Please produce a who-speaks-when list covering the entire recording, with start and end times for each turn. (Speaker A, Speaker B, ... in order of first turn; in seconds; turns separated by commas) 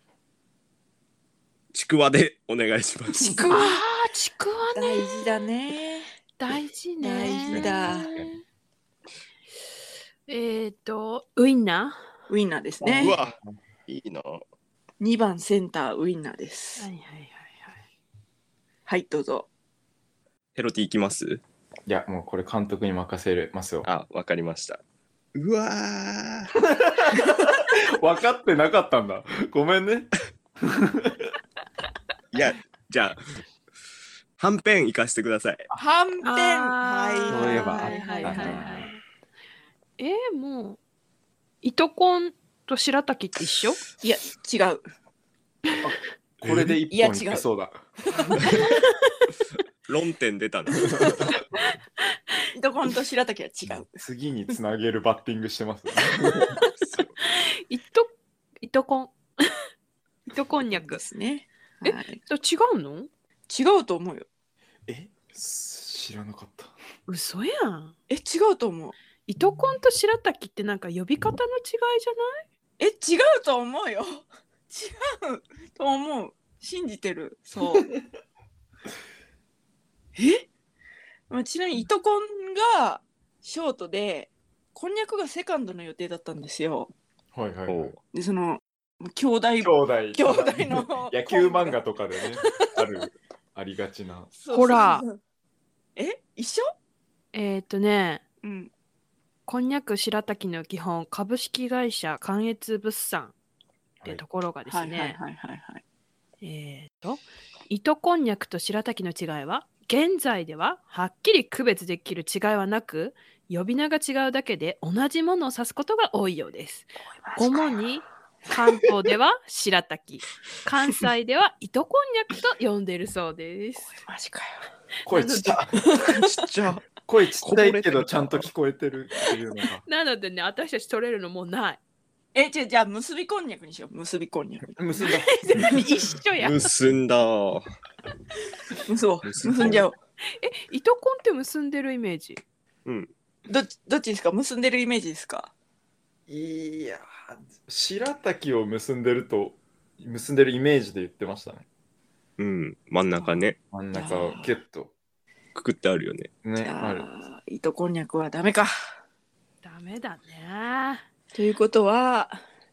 Speaker A: 1.7-3.5, Speaker B: 3.2-3.8, Speaker C: 3.5-5.3, Speaker B: 4.7-6.1, Speaker C: 6.4-8.4, Speaker B: 7.0-8.1, Speaker D: 7.5-8.3, Speaker C: 10.3-12.0, Speaker B: 12.3-13.2, Speaker D: 12.8-13.6, Speaker A: 12.9-13.4, Speaker A: 13.9-14.4, Speaker B: 15.0-16.9, Speaker C: 16.8-17.8, Speaker B: 18.9-19.5, Speaker A: 20.6-21.4, Speaker D: 21.9-23.9, Speaker A: 23.9-24.8, Speaker A: 25.4-26.5, Speaker D: 26.6-31.3, Speaker A: 32.3-33.2, Speaker A: 34.4-35.6, Speaker B: 35.7-38.7, Speaker C: 36.2-39.0, Speaker D: 37.2-38.9, Speaker C: 40.0-40.8, Speaker C: 41.6-43.8, Speaker B: 44.0-44.8, Speaker D: 45.8-48.4, Speaker A: 46.4-46.8, Speaker B: 46.9-47.4, Speaker A: 49.9-51.2, Speaker B: 52.5-54.0, Speaker D: 53.9-56.6, Speaker A: 56.8-57.1, Speaker C: 57.3-59.6, Speaker C: 60.3-61.0, Speaker B: 60.7-62.2, Speaker C: 61.8-63.1, Speaker B: 63.5-64.2, Speaker D: 64.9-66.7, Speaker C: 67.1-67.9, Speaker B: 68.1-69.0, Speaker C: 69.3-72.4, Speaker B: 72.8-77.9, Speaker B: 80.2-80.5, Speaker B: 81.3-86.9, Speaker D: 87.3-88.0, Speaker A: 87.7-88.0, Speaker B: 88.1-91.8, Speaker D: 89.6-94.3, Speaker B: 94.4-95.2, Speaker C: 94.5-95.0, Speaker B: 96.0-96.7, Speaker C: 97.3-98.2, Speaker B: 98.4-98.7, Speaker C: 99.5-103.3, Speaker C: 104.0-105.2, Speaker B: 104.7-105.8, Speaker C: 106.4-124.0, Speaker B: 117.2-117.8, Speaker B: 124.0-124.7, Speaker D: 125.0-129.8, Speaker C: 125.1-125.5, Speaker B: 125.9-126.3, Speaker A: 127.4-128.5, Speaker C: 129.8-131.8, Speaker B: 132.3-134.8, Speaker D: 134.7-135.6, Speaker C: 135.0-136.7, Speaker B: 135.6-135.9, Speaker A: 136.4-137.7, Speaker B: 138.9-140.0, Speaker A: 139.2-139.9, Speaker C: 140.4-142.4, Speaker B: 143.5-145.5, Speaker D: 146.3-151.6, Speaker A: 152.4-153.6, Speaker C: 153.2-153.4, Speaker D: 153.7-154.9, Speaker B: 153.9-154.6, Speaker A: 155.6-156.3, Speaker D: 156.4-157.1, Speaker B: 156.6-158.7, Speaker C: 159.6-161.1, Speaker B: 161.3-162.4